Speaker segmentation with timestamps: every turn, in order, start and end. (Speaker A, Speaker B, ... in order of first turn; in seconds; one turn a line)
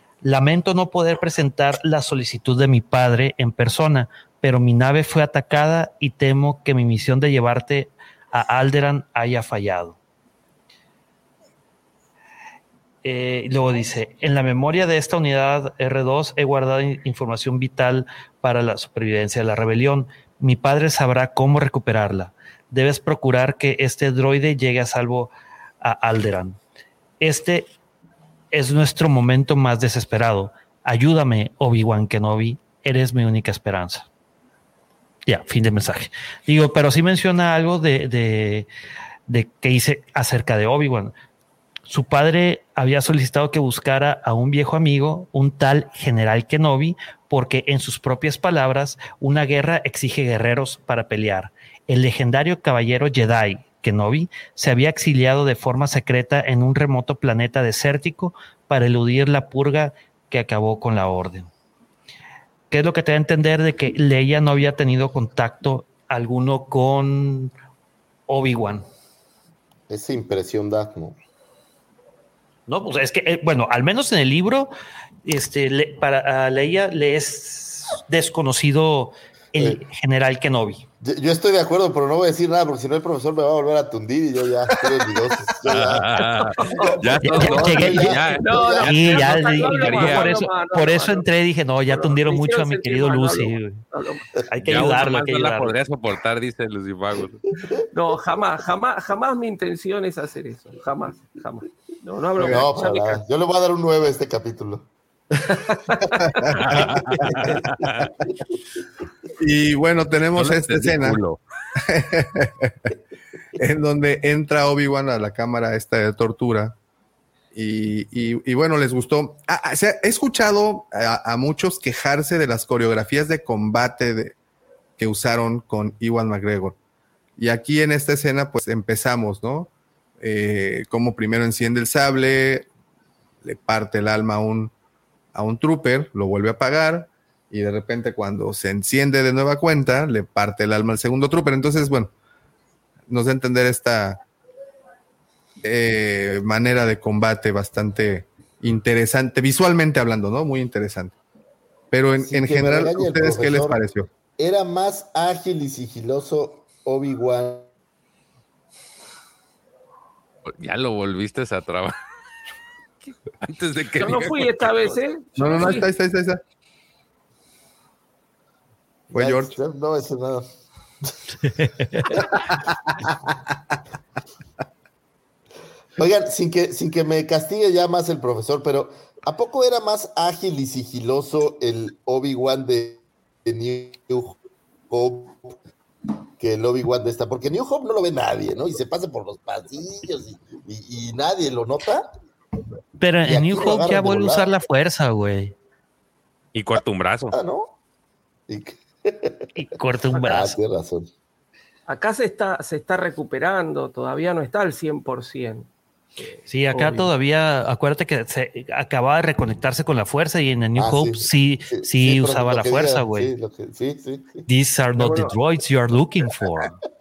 Speaker A: 0.2-10.0
Speaker A: 13.0-26.6
Speaker A: 27.2-27.7
Speaker A: 28.5-34.1
Speaker A: 35.3-38.7
Speaker A: 39.3-41.1
Speaker A: 41.9-61.5
Speaker A: 62.7-67.5
Speaker A: 68.3-68.9
Speaker B: 69.9-71.2
Speaker A: 72.7-74.7
Speaker A: 75.2-80.8
Speaker B: 79.6-79.8
Speaker B: 81.0-86.0
Speaker C: 85.7-90.4
Speaker D: 86.5-91.2
Speaker B: 86.8-88.9
Speaker A: 87.2-88.1
Speaker A: 88.8-93.8
Speaker D: 92.0-95.0
Speaker A: 94.5-95.8
Speaker C: 94.6-97.4
Speaker D: 97.9-103.2
Speaker B: 102.4-104.9
Speaker B: 105.5-106.3
Speaker D: 105.9-106.4
Speaker E: 106.3-107.7
Speaker C: 106.5-108.1
Speaker B: 106.9-107.5
Speaker E: 109.4-111.2
Speaker C: 110.3-111.4
Speaker E: 111.8-112.9
Speaker E: 113.6-116.8
Speaker E: 117.5-124.3
Speaker E: 125.0-126.8
Speaker E: 127.4-132.7
Speaker E: 133.4-134.7
Speaker E: 135.3-142.1
Speaker E: 143.1-144.2
Speaker E: 145.6-151.1
Speaker E: 151.9-154.1
Speaker B: 152.2-153.8
Speaker B: 154.4-157.7
Speaker C: 160.5-161.9
Speaker C: 163.4-165.0
Speaker D: 164.0-165.9
Speaker E: 165.4-166.4
Speaker E: 169.1-169.6
Speaker B: 169.2-170.5
Speaker A: 171.4-172.1
Speaker E: 172.2-173.3
Speaker B: 176.0-185.6
Speaker B: 186.4-192.1
Speaker A: 193.0-195.5
Speaker B: 193.2-194.5
Speaker C: 196.5-197.4
Speaker B: 197.3-197.8
Speaker B: 198.5-199.5
Speaker A: 199.6-200.6
Speaker B: 200.1-201.1
Speaker D: 201.9-207.1
Speaker A: 206.5-213.3
Speaker B: 210.8-214.5
Speaker A: 214.5-216.8
Speaker D: 215.0-215.3